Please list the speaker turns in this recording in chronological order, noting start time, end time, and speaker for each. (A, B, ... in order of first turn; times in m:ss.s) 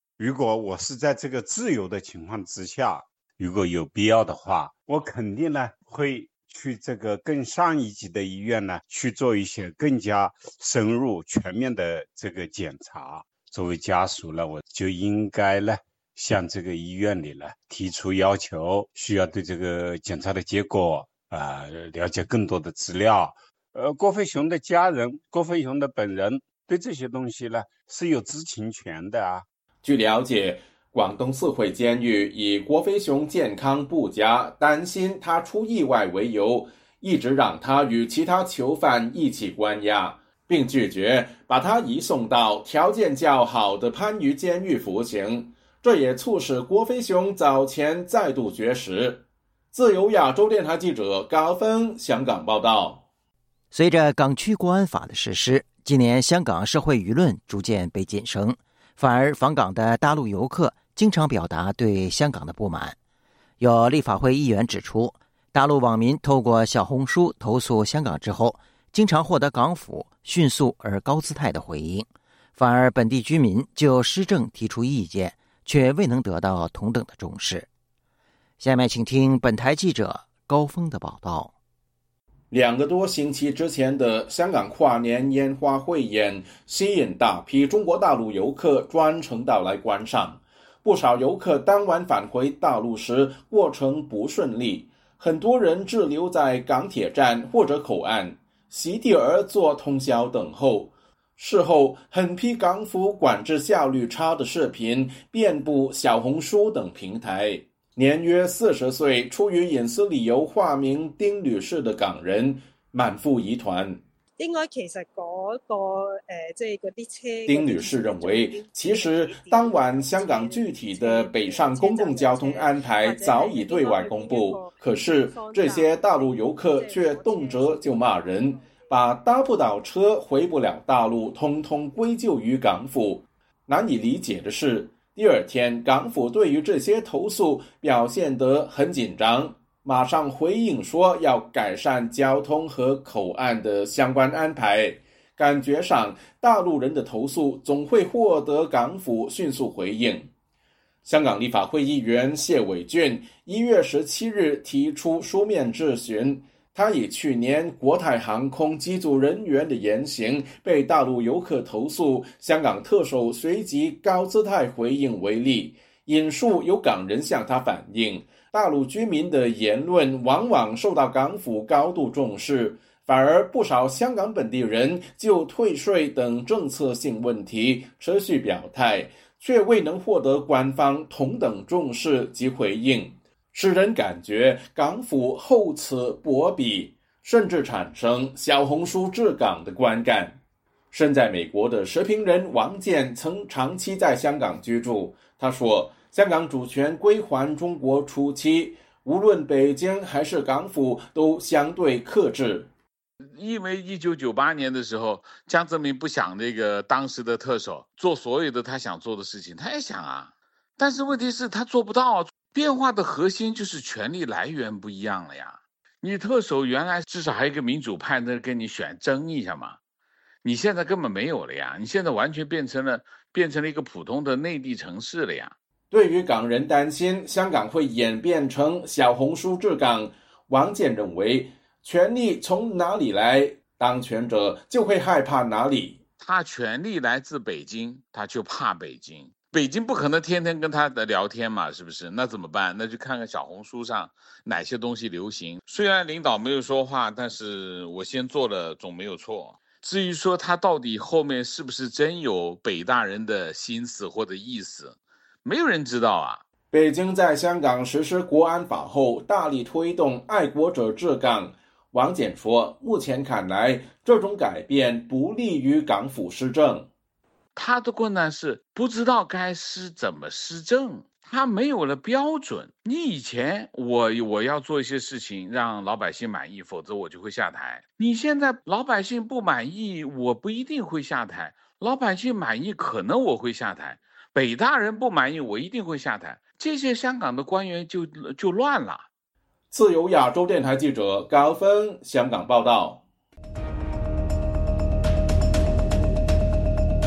0:00.2-0:29.4 A
0:29.8-0:53.0 B
0:53.7-1:03.0 C
1:03.6-1:17.7 C
1:18.6-1:21.5 C
1:22.5-1:54.0 B
1:54.4-2:08.9 D
1:57.4-2:30.3 B
2:31.0-3:10.4 B
3:10.9-3:22.7 B
3:23.3-3:39.8 E
3:40.4-3:45.5 E
3:45.9-3:56.0 B
3:56.2-4:16.4 E
4:16.7-4:26.9 B
4:27.6-4:49.0 E
4:49.7-4:53.0 B